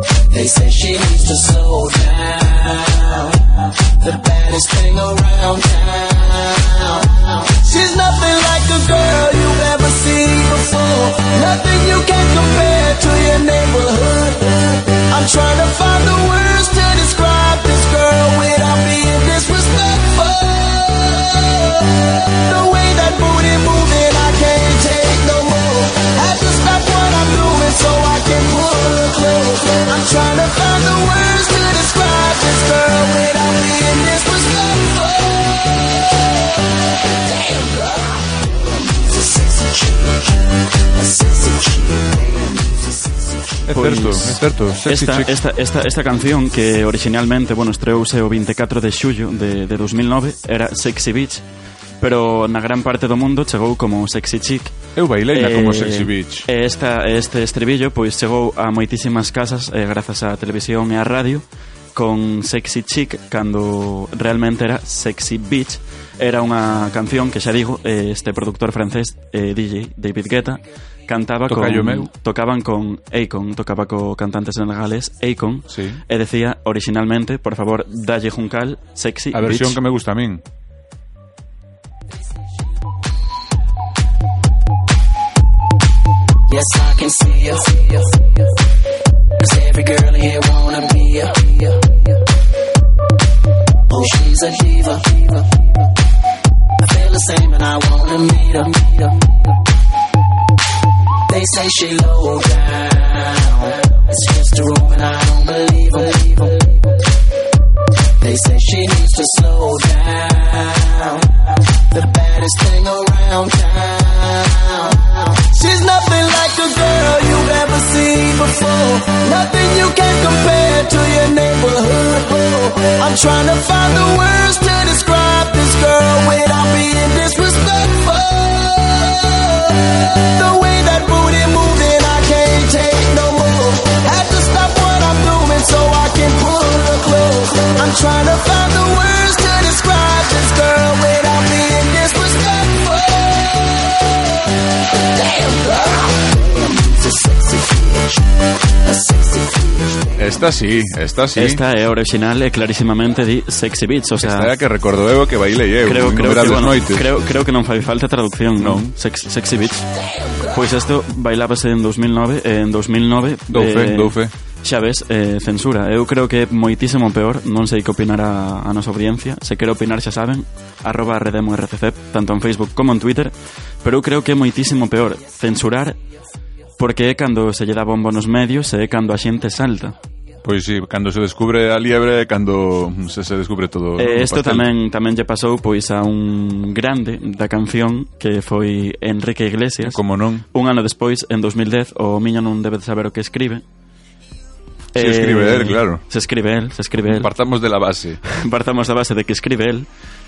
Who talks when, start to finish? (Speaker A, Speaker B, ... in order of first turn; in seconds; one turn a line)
Speaker A: 0.3-35.7
Speaker A: 37.3-38.3
Speaker A: 38.9-43.1
Speaker B: 43.7-45.4
Speaker C: 43.7-51.4
Speaker C: 52.0-54.8
Speaker B: 54.9-56.5
Speaker C: 55.3-79.8
Speaker B: 71.5-72.1
Speaker B: 75.7-76.0
Speaker B: 79.3-80.4
Speaker A: 86.5-88.3
Speaker A: 89.4-92.0
Speaker A: 93.9-95.5
Speaker A: 96.8-99.3
Speaker A: 101.3-106.9
Speaker A: 108.2-143.4
Speaker A: 145.1-148.3
Speaker A: 148.8-150.1
Speaker B: 150.2-151.6
Speaker C: 151.3-154.5
Speaker B: 154.2-157.1
Speaker C: 155.8-159.9
Speaker B: 158.6-158.9
Speaker C: 160.5-176.0
Speaker B: 163.5-164.3
Speaker C: 176.8-179.9
Speaker B: 180.4-184.7
Speaker C: 184.0-193.6
Speaker B: 189.8-190.4
Speaker B: 194.9-196.0
Speaker C: 194.9-197.3
Speaker B: 197.0-198.2
Speaker C: 198.2-199.9